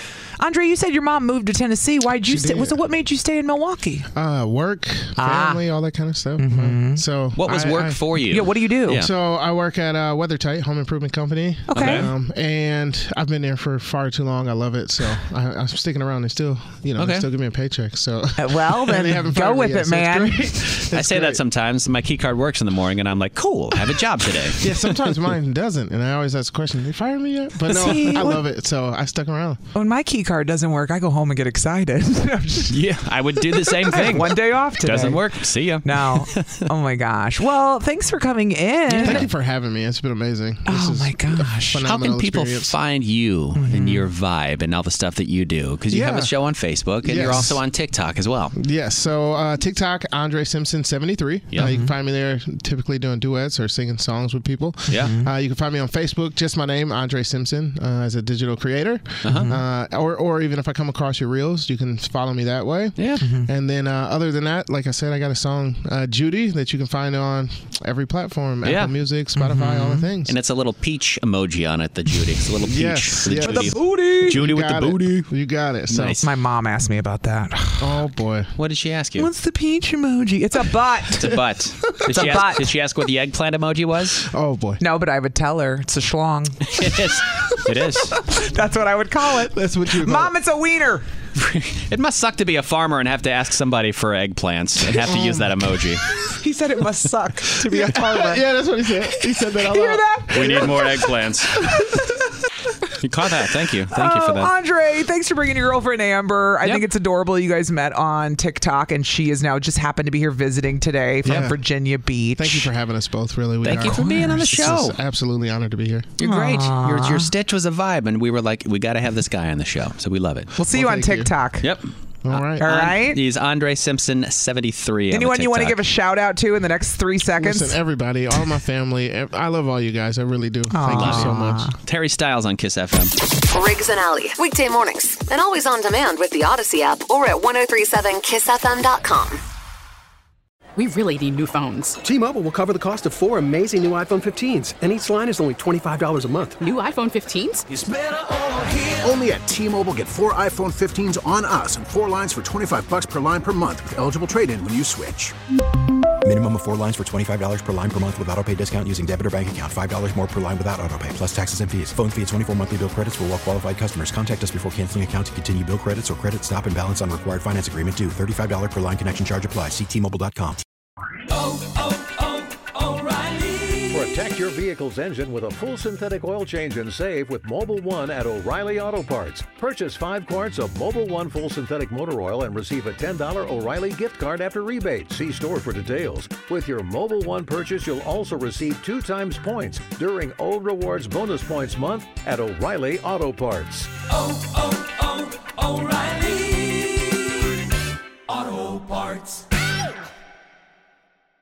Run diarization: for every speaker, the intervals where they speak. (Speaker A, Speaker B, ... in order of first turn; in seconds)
Speaker A: 0.4-4.1, 5.2-5.6, 6.4-7.0, 8.3-9.0, 11.7-12.0, 18.4-20.4, 27.7-28.4, 29.8-32.8, 33.6-39.3, 40.7-41.8, 43.6-44.0, 51.6-51.9, 55.0-55.3, 59.3-59.6, 63.2-63.5, 69.4-70.1, 73.3-74.3, 76.2-77.9, 79.2-81.4, 82.1-82.7, 84.8-86.7, 88.1-91.0, 96.4-98.5, 99.2-101.0, 101.7-102.1, 103.9-112.7, 113.8-114.3, 116.2-117.3, 120.5-121.7, 122.6-123.2, 125.1-127.8, 130.7-131.7
Speaker B: 2.2-2.8, 4.2-8.0, 8.9-21.4, 24.6-29.6, 38.9-42.8, 45.9-46.3, 47.0-47.6, 48.5-70.4, 72.6-76.2, 77.8-78.5, 81.8-82.5, 84.2-84.8, 89.5-90.3, 95.0-95.5, 97.7-100.7, 111.2-111.6, 112.4-116.1, 120.6-121.3, 122.2-122.7, 127.3-131.7
Speaker C: 7.4-9.1, 11.7-12.1, 17.0-17.3, 20.7-25.3, 27.7-28.3, 32.7-36.6, 39.0-39.3, 41.8-48.5, 59.2-59.5, 63.0-63.2, 68.6-69.0, 70.2-75.3, 75.9-76.2, 78.6-79.3, 81.2-84.2, 86.7-88.2, 91.4-96.0, 100.3-101.6, 103.0-104.5, 113.6-115.0, 116.2-120.5, 121.6-125.8, 130.9-133.1
Speaker D: 133.5-139.4
Speaker E: 140.8-142.0, 146.6-147.7
Speaker F: 142.0-146.6
Speaker G: 147.7-155.3
Speaker H: 156.2-170.6
Speaker I: 173.8-193.9